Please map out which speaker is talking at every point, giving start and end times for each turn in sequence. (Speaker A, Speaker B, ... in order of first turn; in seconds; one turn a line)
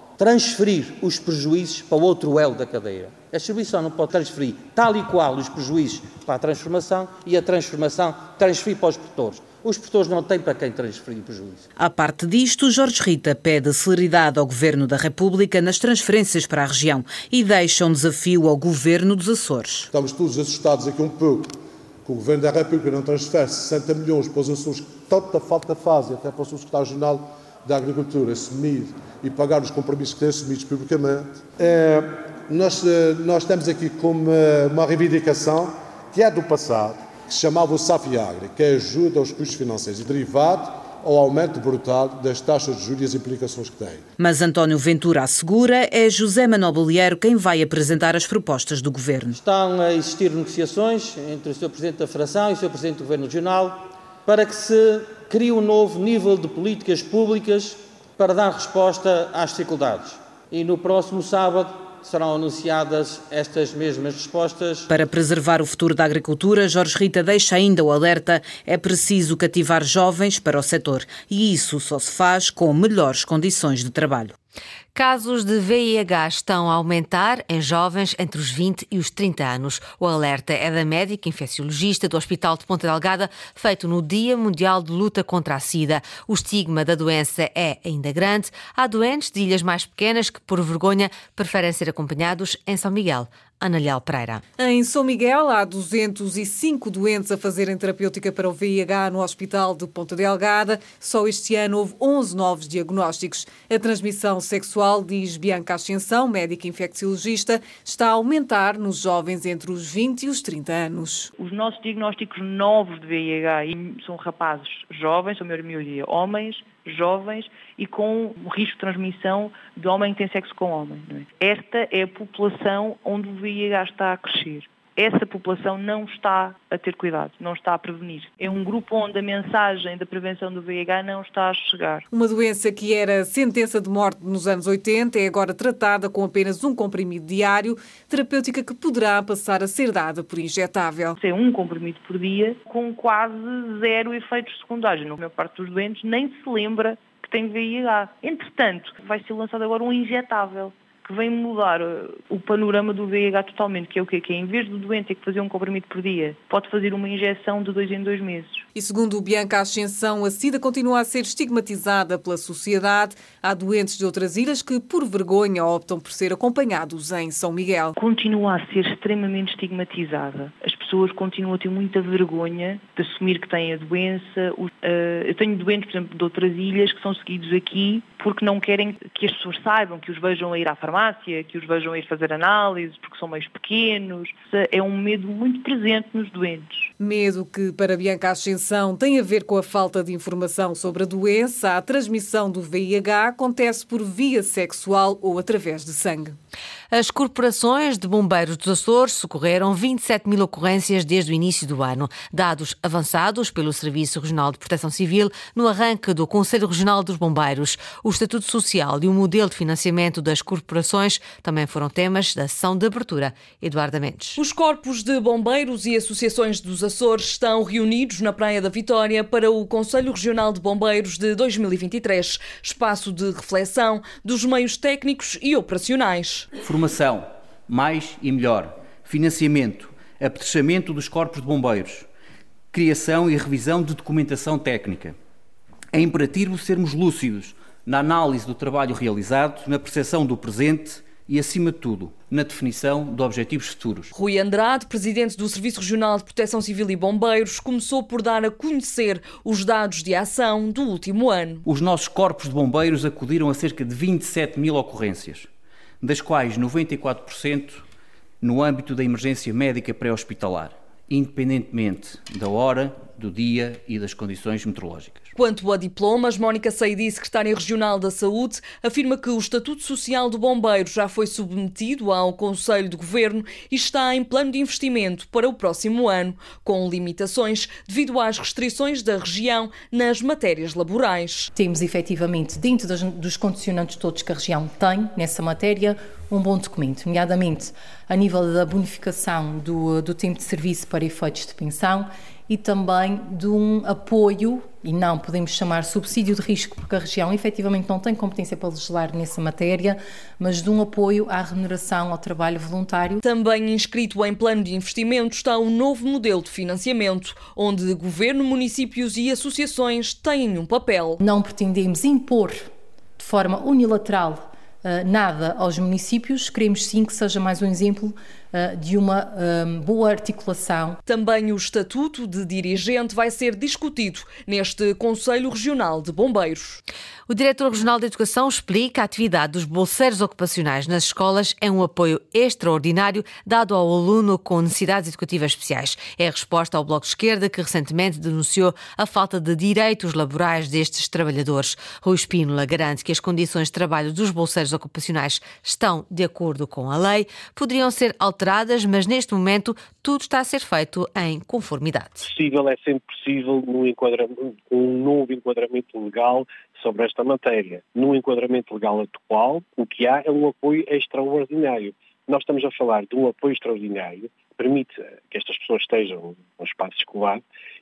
Speaker A: 0.2-7.6
Speaker A: 8.2-11.5
Speaker B: 11.8-19.9
Speaker C: 19.9-21.5
Speaker C: 22.1-44.0
Speaker B: 44.2-49.4
Speaker A: 49.5-53.7
Speaker A: 54.3-64.8
Speaker B: 64.9-74.3
Speaker D: 75.0-94.4
Speaker E: 94.6-111.3
Speaker F: 111.4-132.1
Speaker E: 132.1-141.2
Speaker F: 141.2-158.6
Speaker E: 158.8-167.9
Speaker F: 167.9-186.9
Speaker E: 187.0-196.4
Speaker D: 196.9-214.4
Speaker G: 214.4-226.5
Speaker H: 226.6-232.1
Speaker H: 232.7-235.2
Speaker H: 235.9-244.1
Speaker G: 244.1-251.6
Speaker H: 251.7-255.5
Speaker H: 256.0-257.9
Speaker H: 258.4-265.3
Speaker G: 265.4-281.5
Speaker I: 281.6-303.2
Speaker G: 303.2-311.2
Speaker I: 311.2-312.6
Speaker I: 313.2-321.0
Speaker G: 321.1-326.8
Speaker D: 327.3-352.3
Speaker J: 352.3-367.4